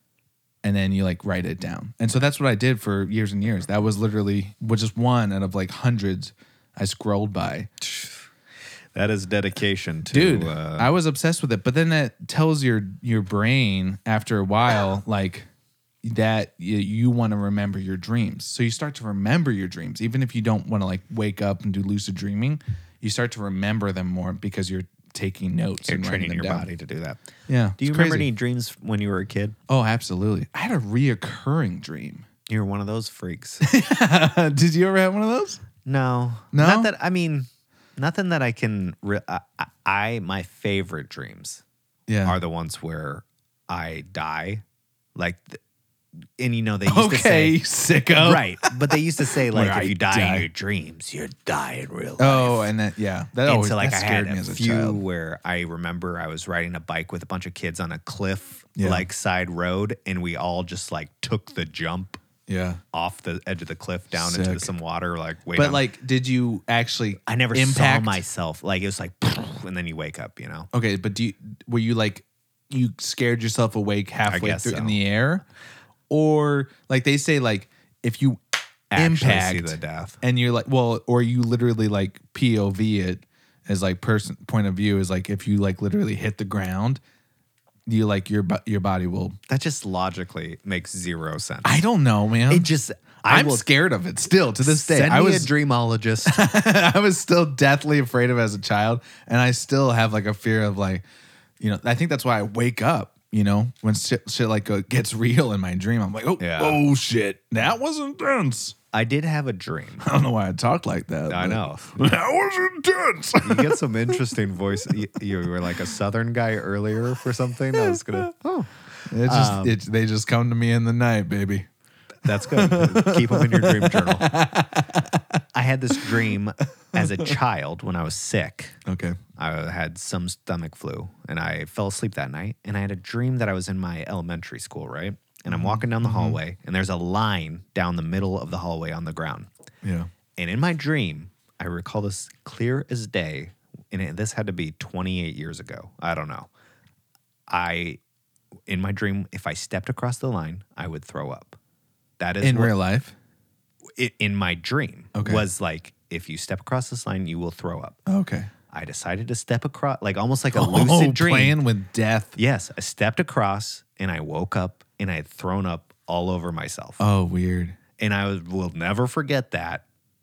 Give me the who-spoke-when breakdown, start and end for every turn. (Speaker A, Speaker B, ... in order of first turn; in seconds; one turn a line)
Speaker A: 0.6-7.7
Speaker B: 7.8-8.2
Speaker B: 8.9-10.9
Speaker A: 10.1-15.5
Speaker A: 16.0-26.7
Speaker B: 25.8-27.2
Speaker A: 27.5-28.3
Speaker B: 27.8-29.6
Speaker A: 29.7-32.2
Speaker B: 32.5-33.6
Speaker A: 33.6-35.6
Speaker B: 35.8-41.6
Speaker A: 36.5-36.9
Speaker A: 42.1-42.3
Speaker B: 42.2-44.6
Speaker B: 45.1-45.6
Speaker B: 46.4-47.6
Speaker A: 46.9-50.5
Speaker B: 48.1-52.7
Speaker A: 52.2-55.0
Speaker B: 53.4-62.2
Speaker A: 58.8-59.0
Speaker A: 62.5-62.8
Speaker B: 62.9-65.8
Speaker A: 64.1-64.7
Speaker A: 65.5-68.2
Speaker B: 67.2-70.7
Speaker A: 70.7-75.4
Speaker B: 74.3-75.0
Speaker A: 76.1-78.4
Speaker B: 78.9-80.2
Speaker A: 78.9-87.0
Speaker A: 87.9-89.4
Speaker B: 89.5-91.8
Speaker A: 91.6-92.7
Speaker B: 92.5-93.7
Speaker A: 93.3-95.5
Speaker B: 94.6-96.4
Speaker A: 96.2-101.0
Speaker A: 101.6-108.8
Speaker B: 106.4-106.8
Speaker B: 108.9-110.0
Speaker A: 110.0-114.2
Speaker B: 111.3-112.1
Speaker B: 113.4-119.8
Speaker A: 117.7-118.2
Speaker A: 119.1-121.7
Speaker B: 122.2-124.3
Speaker A: 122.3-125.4
Speaker B: 125.5-128.8
Speaker A: 125.9-126.3
Speaker A: 126.9-127.3
Speaker A: 128.8-129.2
Speaker B: 129.4-139.5
Speaker A: 135.5-136.4
Speaker A: 139.8-140.1
Speaker B: 140.3-146.5
Speaker B: 147.5-148.0
Speaker B: 148.7-151.6
Speaker B: 152.2-152.7
Speaker A: 152.4-153.1
Speaker B: 154.0-158.0
Speaker A: 155.1-155.4
Speaker A: 158.1-158.5
Speaker B: 158.7-161.6
Speaker A: 160.5-162.3
Speaker B: 162.3-167.0
Speaker A: 167.0-167.8
Speaker B: 168.0-169.8